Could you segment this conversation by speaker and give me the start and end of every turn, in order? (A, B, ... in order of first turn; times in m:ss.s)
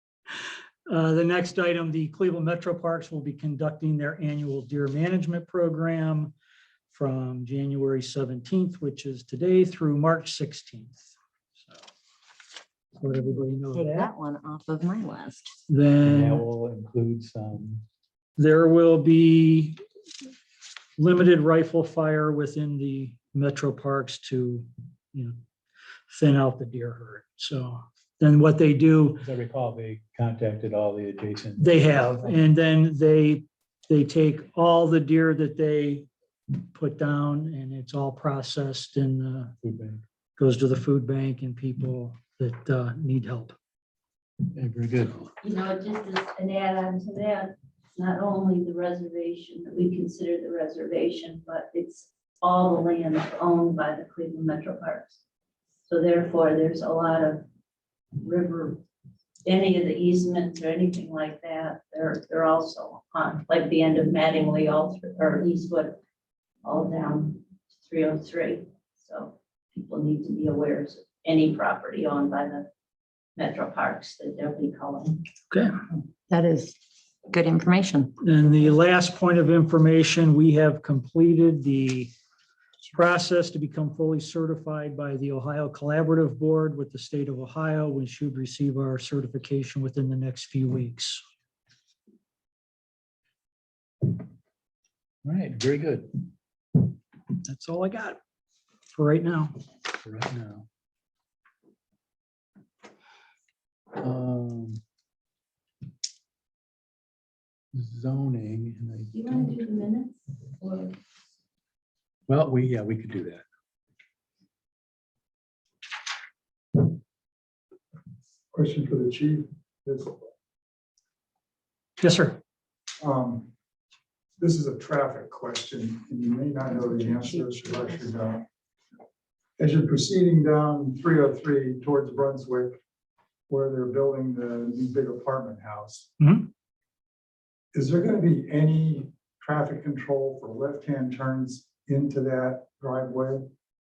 0:00.9-0:06.3 A
0:06.9-0:11.8 A
0:13.0-0:14.1 A
0:13.7-0:15.5 B
0:15.7-0:16.5 A
0:16.0-0:17.8 C
0:18.4-0:19.8 A
0:21.0-0:25.4 A
0:26.1-0:29.3 A
0:29.2-0:31.7 C
0:31.6-0:39.5 A
0:39.6-0:40.0 C
0:40.4-0:43.6 A
0:44.5-0:45.3 C
0:45.4-0:55.2 D
0:55.9-0:57.5 D
0:58.2-0:58.8 D
0:59.4-1:06.0 D
1:06.6-1:12.7 D
1:13.4-1:15.2 D
1:16.3-1:16.8 B
1:17.3-1:18.1 B
1:18.2-1:22.1 A
1:22.9-1:31.2 A
1:35.2-1:36.2 C
1:37.4-1:38.2 A
1:38.9-1:39.5 A
1:40.0-1:40.7 C
1:44.0-1:44.8 C
1:47.7-1:49.7 C
1:49.1-1:51.0 D
1:52.3-1:53.4 C
1:58.5-2:00.2 E
2:02.0-2:02.4 A
2:03.0-2:03.5 E
2:04.4-2:08.4 E
2:09.6-2:12.8 E
2:13.5-2:16.1 E
2:16.2-2:16.5 A
2:17.7-2:23.5 E